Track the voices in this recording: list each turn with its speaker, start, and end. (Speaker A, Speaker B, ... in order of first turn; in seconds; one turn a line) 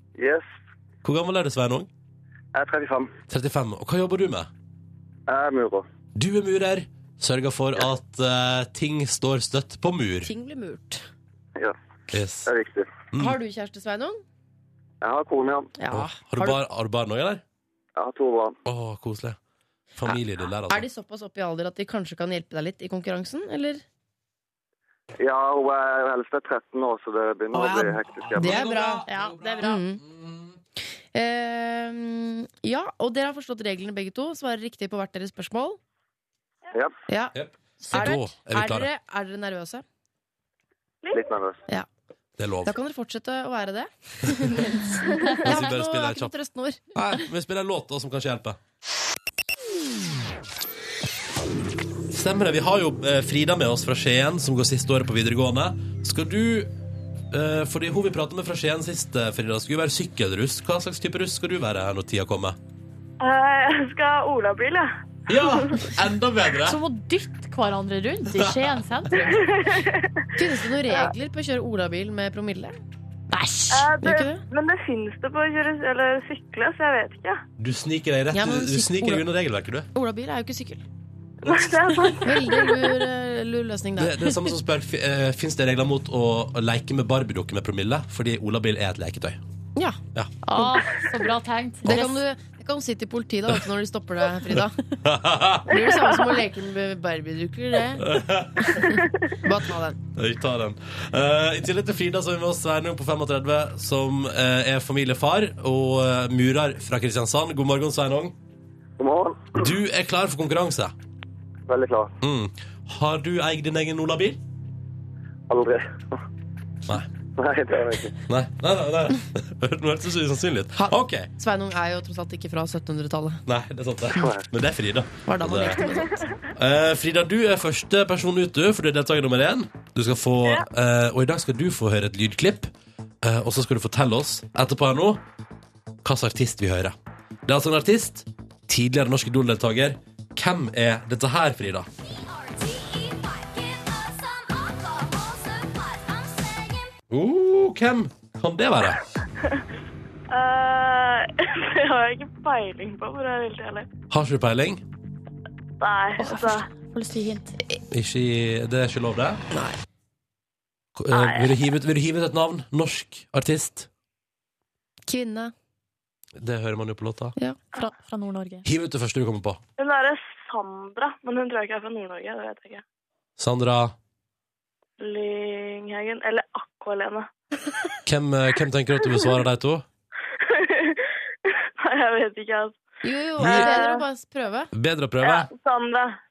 Speaker A: 0.2-0.5
Speaker B: 1.0-1.9
Speaker A: 2.5-3.1
Speaker B: 3.3-4.5
Speaker A: 5.3-5.8
Speaker B: 6.1-10.3
Speaker C: 10.2-11.1
Speaker B: 12.1-12.5
Speaker A: 12.4-12.9
Speaker B: 13.1-13.4
Speaker C: 13.2-14.2
Speaker A: 15.0-15.7
Speaker C: 15.8-16.6
Speaker B: 15.9-17.4
Speaker A: 18.0-18.5
Speaker B: 18.6-19.4
Speaker B: 20.0-20.9
Speaker C: 20.0-23.8
Speaker A: 25.2-28.7
Speaker C: 27.5-29.0
Speaker B: 28.2-30.6
Speaker D: 29.0-29.8
Speaker C: 29.6-30.0
Speaker C: 31.1-35.8
Speaker C: 37.1-37.4
Speaker B: 37.3-38.9
Speaker D: 37.8-38.2
Speaker C: 37.9-39.8
Speaker E: 41.0-41.3
Speaker A: 41.1-41.6
Speaker B: 42.4-42.8
Speaker C: 42.6-46.9
Speaker B: 45.4-46.3
Speaker B: 46.9-48.6
Speaker B: 52.1-56.7
Speaker B: 57.3-62.6
Speaker E: 63.2-65.8
Speaker B: 65.3-66.8
Speaker D: 66.6-69.5
Speaker B: 68.3-68.8
Speaker E: 69.3-70.3
Speaker C: 70.3-72.7
Speaker D: 73.3-73.9
Speaker E: 73.7-77.4
Speaker C: 74.0-74.4
Speaker B: 77.6-79.9
Speaker C: 78.3-79.2
Speaker C: 79.9-80.8
Speaker E: 81.4-83.0
Speaker B: 81.4-81.7
Speaker C: 82.2-84.2
Speaker B: 84.0-89.4
Speaker D: 90.4-92.2
Speaker B: 91.8-92.1
Speaker C: 91.8-94.8
Speaker B: 95.0-95.8
Speaker C: 95.7-100.0
Speaker B: 98.0-98.9
Speaker B: 100.1-108.4
Speaker A: 109.0-109.6
Speaker B: 109.5-110.9
Speaker A: 111.7-112.1
Speaker B: 112.2-114.4
Speaker A: 115.5-116.2
Speaker A: 117.4-118.2
Speaker B: 118.3-121.3
Speaker C: 120.8-123.4
Speaker B: 123.5-125.8
Speaker C: 125.2-126.3
Speaker B: 126.5-135.2
Speaker B: 136.0-136.9
Speaker B: 137.5-141.9
Speaker B: 147.1-149.0
Speaker E: 150.3-153.9
Speaker B: 154.1-154.8
Speaker E: 155.8-156.7
Speaker D: 156.2-157.6
Speaker B: 157.9-159.4
Speaker C: 159.5-159.8
Speaker B: 160.9-163.9
Speaker E: 161.1-161.5
Speaker C: 165.1-165.5
Speaker B: 166.4-167.3
Speaker D: 167.7-168.7
Speaker B: 168.6-169.6
Speaker E: 169.8-172.8
Speaker B: 173.4-173.9
Speaker E: 175.0-177.3
Speaker B: 178.1-179.8
Speaker E: 180.4-182.8
Speaker C: 183.0-184.7
Speaker B: 183.4-183.7
Speaker E: 183.4-184.0
Speaker B: 184.7-185.5
Speaker E: 185.2-186.2